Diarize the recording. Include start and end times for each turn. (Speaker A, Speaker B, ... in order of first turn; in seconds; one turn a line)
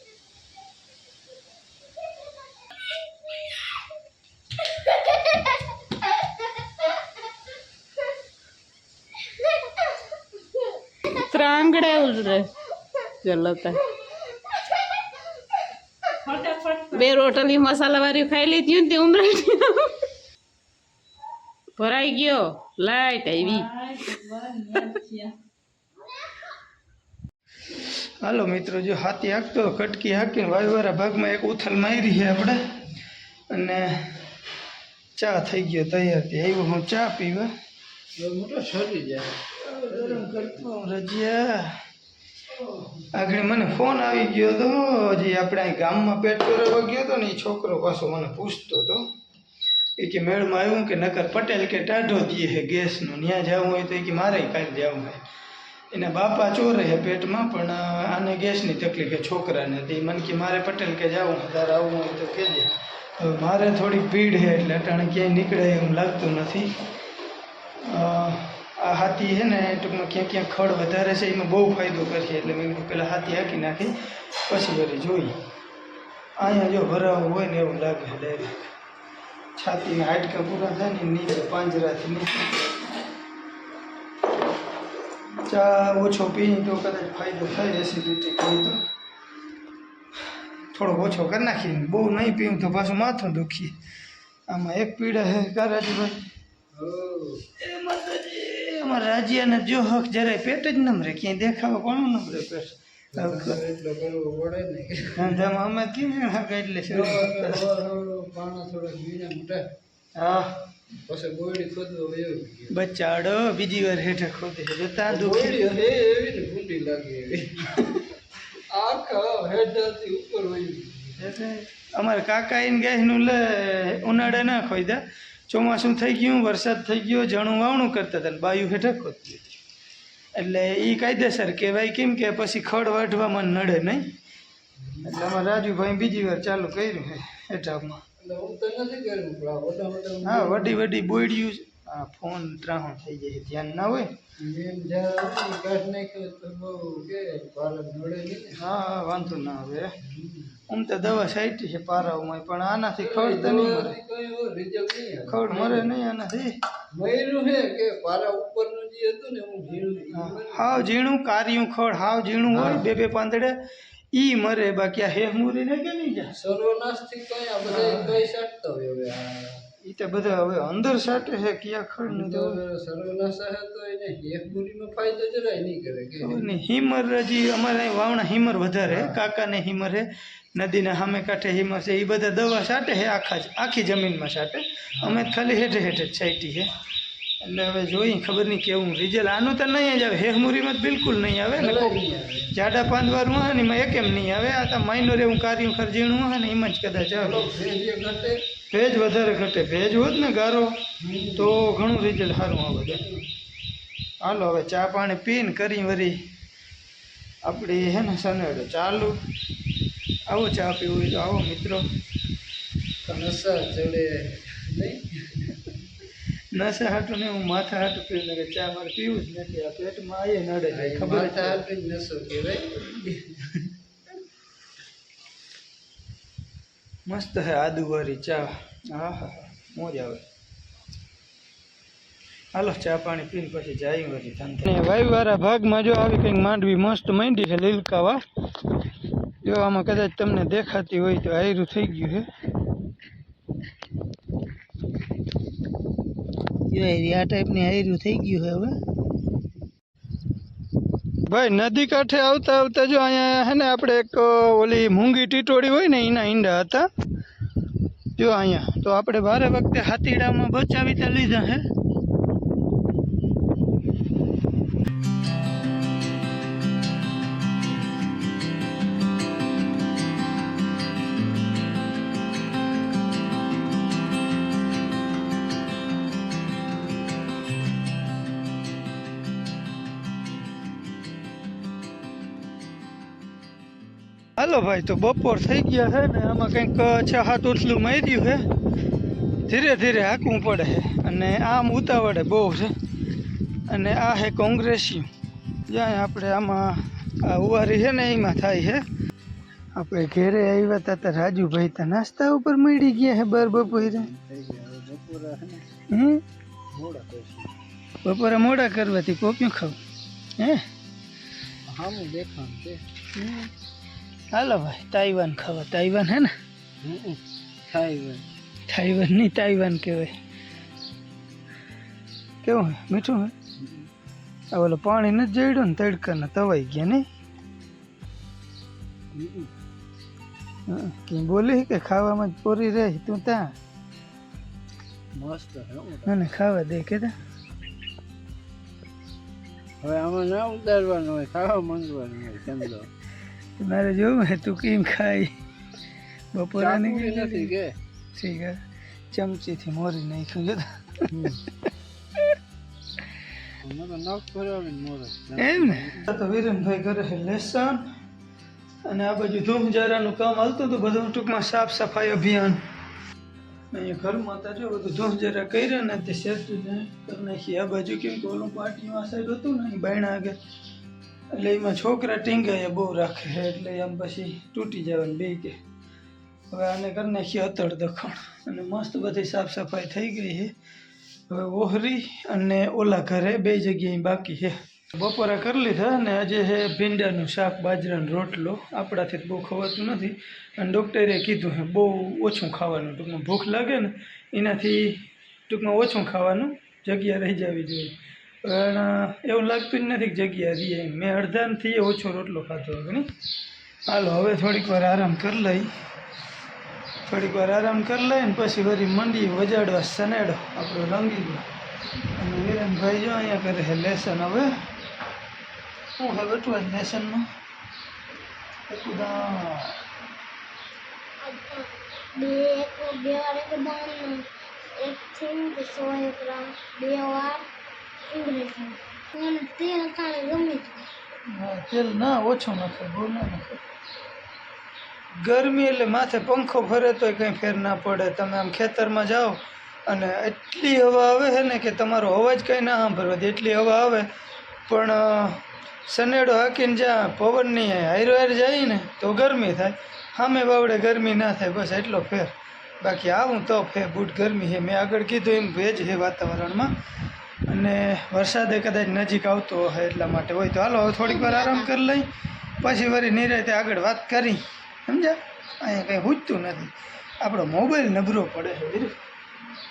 Speaker A: 11.3-12.5
Speaker A: 13.2-13.8
Speaker B: 16.2-17.3
Speaker C: 17.0-18.6
Speaker A: 17.0-19.9
Speaker A: 21.8-23.6
Speaker B: 23.4-25.3
Speaker D: 28.2-32.6
Speaker D: 33.5-34.3
Speaker D: 35.2-37.5
Speaker C: 38.2-39.3
Speaker D: 39.6-41.8
Speaker C: 39.9-40.2
Speaker D: 43.1-49.1
Speaker D: 50.0-55.2
Speaker D: 55.9-66.7
Speaker D: 67.8-73.9
Speaker D: 74.5-75.3
Speaker D: 76.4-78.7
Speaker D: 79.6-82.4
Speaker D: 85.5-88.8
Speaker D: 90.7-93.8
Speaker D: 94.5-96.2
Speaker C: 96.8-97.4
Speaker D: 97.6-103.6
Speaker C: 103.1-105.4
Speaker D: 105.2-107.6
Speaker C: 106.9-109.6
Speaker D: 110.2-110.5
Speaker C: 111.0-112.7
Speaker D: 112.7-115.6
Speaker C: 115.1-117.9
Speaker C: 118.7-121.2
Speaker D: 121.2-129.6
Speaker D: 130.3-134.1
Speaker D: 135.1-138.0
Speaker C: 138.2-140.8
Speaker D: 140.2-144.1
Speaker C: 144.4-148.6
Speaker D: 148.6-149.9
Speaker C: 150.1-150.5
Speaker D: 150.7-154.0
Speaker C: 153.0-155.9
Speaker D: 155.3-156.5
Speaker C: 157.0-160.9
Speaker D: 160.2-163.6
Speaker C: 162.5-162.9
Speaker D: 164.1-166.3
Speaker C: 166.4-169.5
Speaker D: 167.7-168.2
Speaker D: 169.8-172.6
Speaker C: 172.0-176.5
Speaker D: 176.2-186.7
Speaker C: 178.9-179.2
Speaker C: 185.0-185.3
Speaker D: 187.4-192.0
Speaker C: 191.6-192.6
Speaker D: 192.5-197.5
Speaker C: 197.2-198.3
Speaker D: 198.7-200.8
Speaker C: 201.0-201.6
Speaker D: 201.4-203.0
Speaker D: 204.2-206.2
Speaker D: 207.4-209.2
Speaker D: 210.3-211.8
Speaker C: 213.1-215.4
Speaker D: 216.5-221.6
Speaker C: 220.7-223.4
Speaker D: 227.1-230.2
Speaker D: 232.5-238.2
Speaker D: 239.4-242.3
Speaker D: 246.7-248.8
Speaker D: 251.3-256.9
Speaker D: 258.2-261.6
Speaker D: 284.4-288.4
Speaker D: 289.5-292.7
Speaker D: 293.7-295.1
Speaker D: 295.7-298.8
Speaker D: 299.8-304.1
Speaker C: 303.6-305.6
Speaker D: 305.9-306.2
Speaker C: 306.8-307.5
Speaker D: 308.0-309.8
Speaker D: 310.4-310.6
Speaker C: 311.7-312.8
Speaker D: 313.1-313.5
Speaker D: 314.3-316.3
Speaker C: 316.8-317.2
Speaker C: 317.7-318.2
Speaker D: 318.7-320.1
Speaker D: 322.4-323.3
Speaker D: 324.5-327.1
Speaker C: 329.1-329.5
Speaker D: 330.7-333.5
Speaker C: 335.2-336.1
Speaker D: 336.1-337.1
Speaker C: 339.8-342.9
Speaker D: 343.6-345.3
Speaker D: 346.3-347.5
Speaker C: 346.6-347.7
Speaker D: 348.1-348.6
Speaker D: 349.1-351.1
Speaker C: 353.6-356.1
Speaker D: 355.4-357.9
Speaker D: 358.9-362.6
Speaker D: 363.7-370.4
Speaker D: 371.3-375.6
Speaker D: 376.5-380.5
Speaker D: 381.3-403.1
Speaker D: 403.9-405.7
Speaker D: 407.1-411.5
Speaker D: 412.2-414.5
Speaker D: 416.0-417.3
Speaker D: 418.7-419.8
Speaker E: 421.2-421.7
Speaker E: 422.2-424.2
Speaker E: 424.8-427.4
Speaker E: 428.1-430.7
Speaker D: 431.3-433.6
Speaker D: 435.2-444.1
Speaker D: 444.7-456.7
Speaker D: 457.5-462.1
Speaker E: 461.0-461.7
Speaker D: 462.6-468.9